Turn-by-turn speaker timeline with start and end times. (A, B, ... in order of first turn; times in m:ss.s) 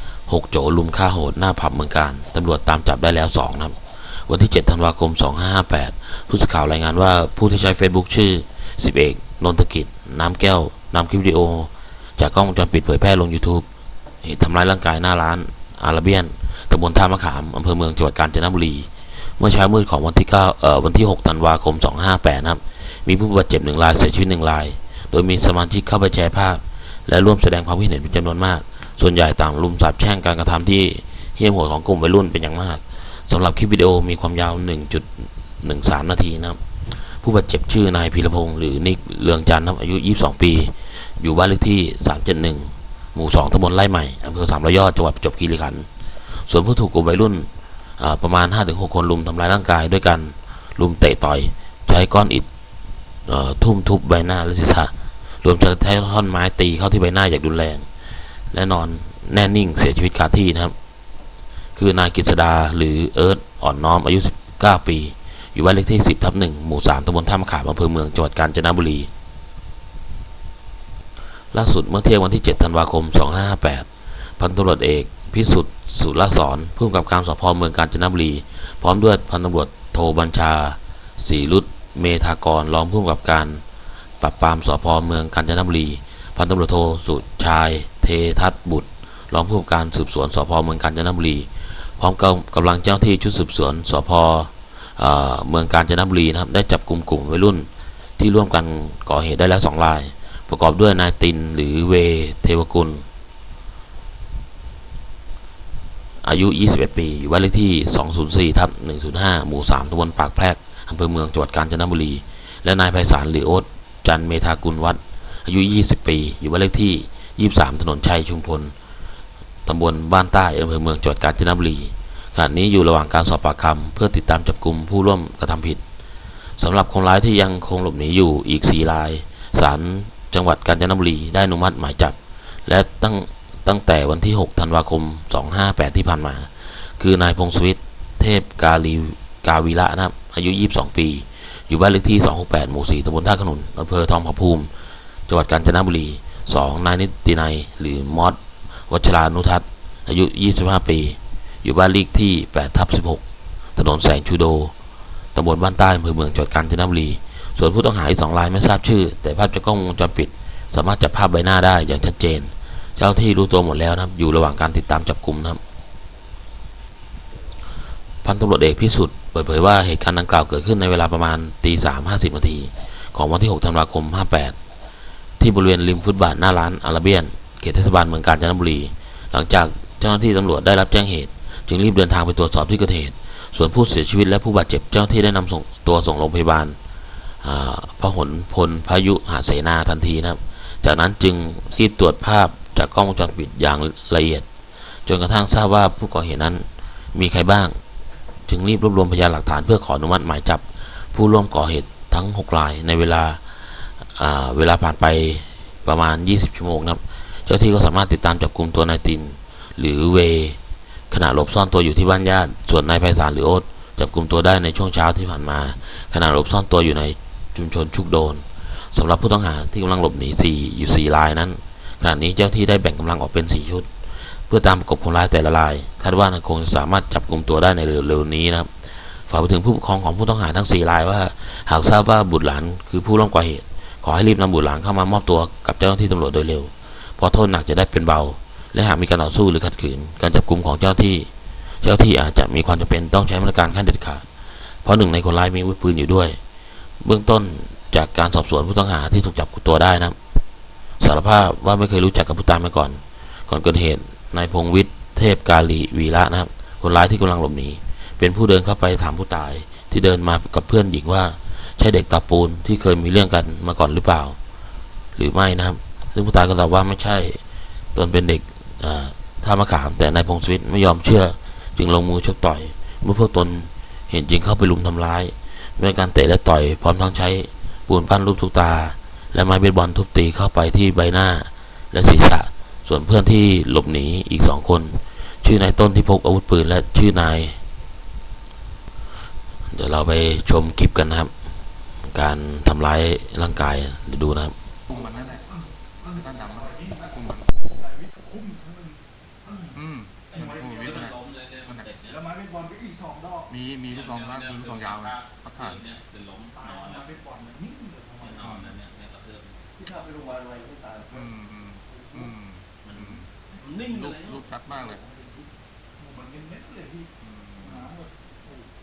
0:00.3-0:13.7 A
0:14.2-0:36.6 A
0:37.2-0:45.9 A
0:46.5-0:52.5 A
0:53.3-0:57.9 A
0:58.5-1:00.8 A
1:01.8-1:09.1 A
1:11.5-1:13.9 A
1:14.4-1:23.6 A
1:24.2-1:37.7 A
1:38.2-1:43.0 A
1:46.2-1:58.7 A
1:59.7-2:05.8 A
2:06.6-2:24.7 A
2:25.3-2:28.4 A
2:28.9-2:33.2 A
2:33.8-2:34.7 A
2:35.4-2:45.6 A
2:48.2-2:54.6 A
2:55.4-3:06.8 A
3:07.4-3:14.5 A
3:15.1-3:17.8 A
3:18.5-3:30.6 A
3:31.1-3:43.9 A
3:44.5-4:01.3 A
4:01.8-4:04.2 A
4:04.8-4:06.4 A
4:07.0-4:10.2 A
4:11.0-4:24.4 A
4:25.2-4:27.4 A
4:28.0-4:47.6 A
4:49.7-4:51.3 A
4:52.0-4:54.6 A
4:54.9-4:55.5 B
4:54.9-4:55.5 C
4:56.0-4:57.6 B
4:56.0-4:57.1 C
4:57.8-4:59.8 C
4:59.7-5:01.9 B
5:00.3-5:02.2 D
5:00.3-5:01.0 C
5:02.1-5:03.5 C
5:03.5-5:05.8 B
5:03.9-5:07.2 D
5:06.6-5:08.6 C
5:08.2-5:09.6 D
5:08.4-5:08.8 B
5:09.8-5:11.2 C
5:11.1-5:13.3 B
5:11.9-5:12.3 C
5:12.8-5:14.4 D
5:13.9-5:15.0 B
5:14.7-5:17.1 C
5:17.2-5:17.9 B
5:17.6-5:18.7 C